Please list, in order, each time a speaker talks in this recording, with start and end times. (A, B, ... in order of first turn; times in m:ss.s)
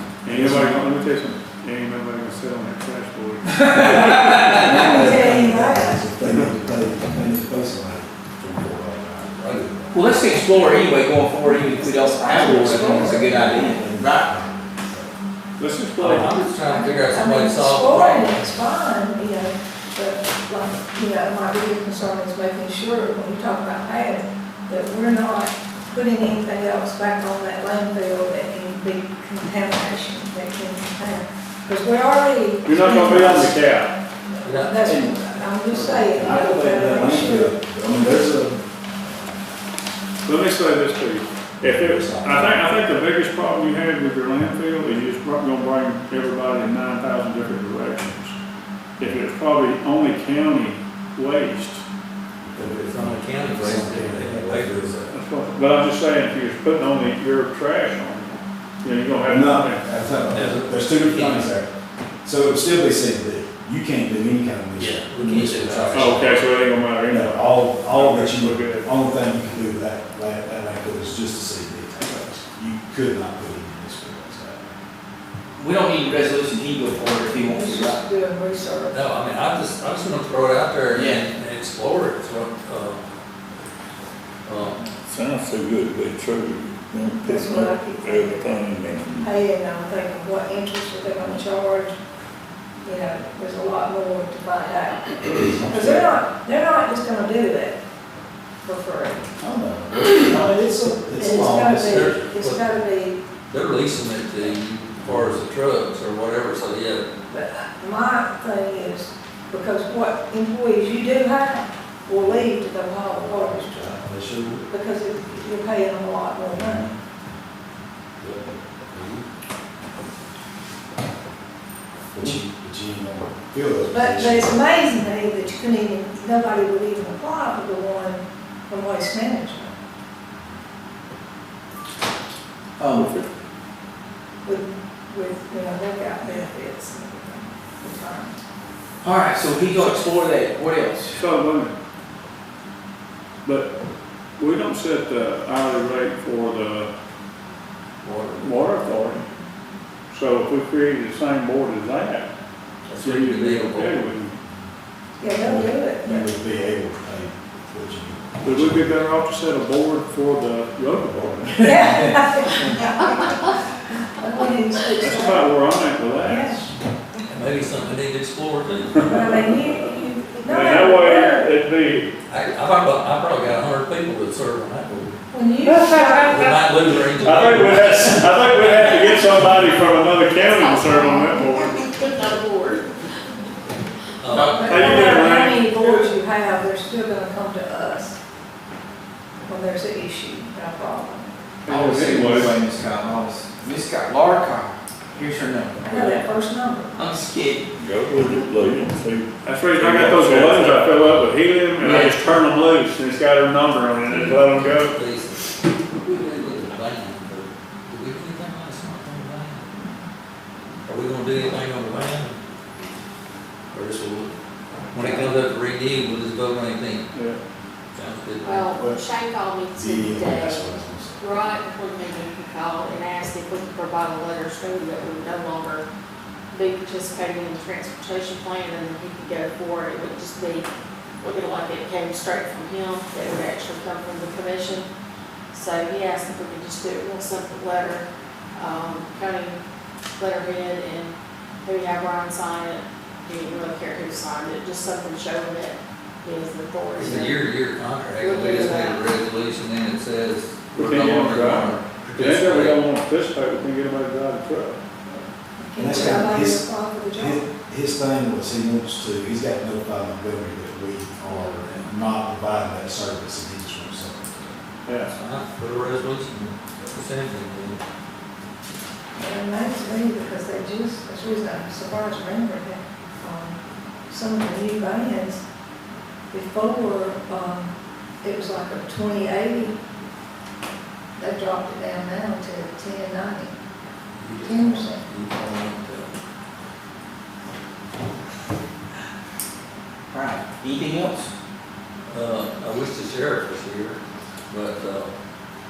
0:00.2-0:03.6 A
0:00.3-0:00.8 B
0:03.4-0:04.9 C
0:04.0-0:10.8 B
0:04.4-0:06.1 D
0:09.3-0:09.7 E
0:09.9-0:14.3 C
0:11.4-0:13.8 D
0:12.4-0:15.1 B
0:15.6-0:16.4 A
0:16.0-0:18.5 E
0:16.5-0:33.5 D
0:32.6-0:33.9 A
0:34.2-0:37.6 D
0:34.4-0:34.8 E
0:34.8-0:36.7 C
0:36.1-0:38.7 B
0:40.2-0:48.4 A
0:41.6-0:42.6 B
0:49.0-0:51.8 A
0:52.4-0:55.0 B
0:52.6-0:55.1 E
0:55.1-0:59.8 A
0:59.2-1:01.7 B
1:00.3-1:01.5 E
1:02.2-1:06.4 B
1:04.8-1:06.5 E
1:05.9-1:09.2 A
1:07.1-1:14.8 B
1:15.6-1:18.0 C
1:17.4-1:19.0 D
1:18.9-1:23.0 E
1:20.9-1:21.2 C
1:24.5-1:24.8 E
1:25.0-1:29.3 F
1:27.0-1:32.0 D
1:32.8-1:37.8 D
1:35.2-1:36.1 B
1:38.6-1:39.3 D
1:39.4-1:42.3 B
1:41.1-1:43.2 D
1:41.8-1:42.7 E
1:43.4-1:47.1 E
1:45.0-1:45.4 B
1:47.3-1:54.0 D
1:53.4-1:54.6 B
1:54.7-1:56.9 D
1:56.5-1:57.0 B
1:58.2-1:59.2 B
2:02.1-2:04.6 B
2:03.9-2:09.7 D
2:12.8-2:13.2 C
2:12.9-2:13.2 F
2:14.4-2:18.4 D
2:16.2-2:16.5 C
2:19.0-2:21.2 C
2:21.1-2:21.7 A
2:23.4-2:23.7 A
2:24.4-2:26.9 A
2:28.0-2:28.8 E
2:28.4-2:29.2 A
2:30.1-2:32.3 A
2:32.9-2:34.1 E
2:33.0-2:34.3 A
2:35.2-2:36.3 D
2:35.4-2:38.9 B
2:38.4-2:41.6 A
2:41.6-2:42.7 C
2:41.6-2:43.6 D
2:44.2-2:45.5 D
2:45.0-2:46.5 A
2:46.2-2:46.6 D
2:47.2-2:49.4 E
2:49.0-2:51.6 D
2:50.4-2:52.1 A
2:52.3-2:55.2 E
2:55.3-2:56.5 D
2:55.7-3:01.8 A
2:56.1-2:59.6 E
3:00.4-3:02.9 G
3:00.9-3:01.6 D
3:04.2-3:04.9 E
3:04.3-3:05.2 C
3:04.6-3:08.2 D
3:04.6-3:06.2 A
3:09.5-3:11.3 D
3:11.7-3:12.5 A
3:11.7-3:16.2 C
3:15.8-3:17.0 D
3:17.0-3:17.7 C
3:17.8-3:21.2 F
3:19.4-3:25.0 A
3:21.8-3:22.2 E
3:24.1-3:25.4 E
3:26.0-3:29.7 E
3:30.9-3:32.4 E
3:33.7-3:34.3 E
3:34.9-3:37.1 E
3:37.1-3:37.4 A
3:38.0-3:38.7 E
3:38.4-3:45.8 G
3:38.8-3:39.0 B
3:39.7-3:41.2 B
3:46.5-3:50.7 G
3:51.2-3:54.9 G
3:55.5-3:58.0 G
3:58.6-3:59.6 G
4:00.2-4:01.1 G
4:01.6-4:07.4 G
4:07.0-4:12.8 E
4:08.2-4:09.1 G
4:10.8-4:14.8 A
4:12.0-4:12.4 B
4:15.1-4:17.4 D
4:15.8-4:24.6 B
4:24.9-4:25.1 A
4:25.1-4:27.8 E
4:29.2-4:35.4 D
4:36.3-4:39.8 D
4:41.2-4:43.6 D
4:44.2-4:46.1 E
4:44.4-4:45.1 D
4:50.1-4:51.3 C
4:52.1-4:54.0 E
4:54.5-4:55.1 E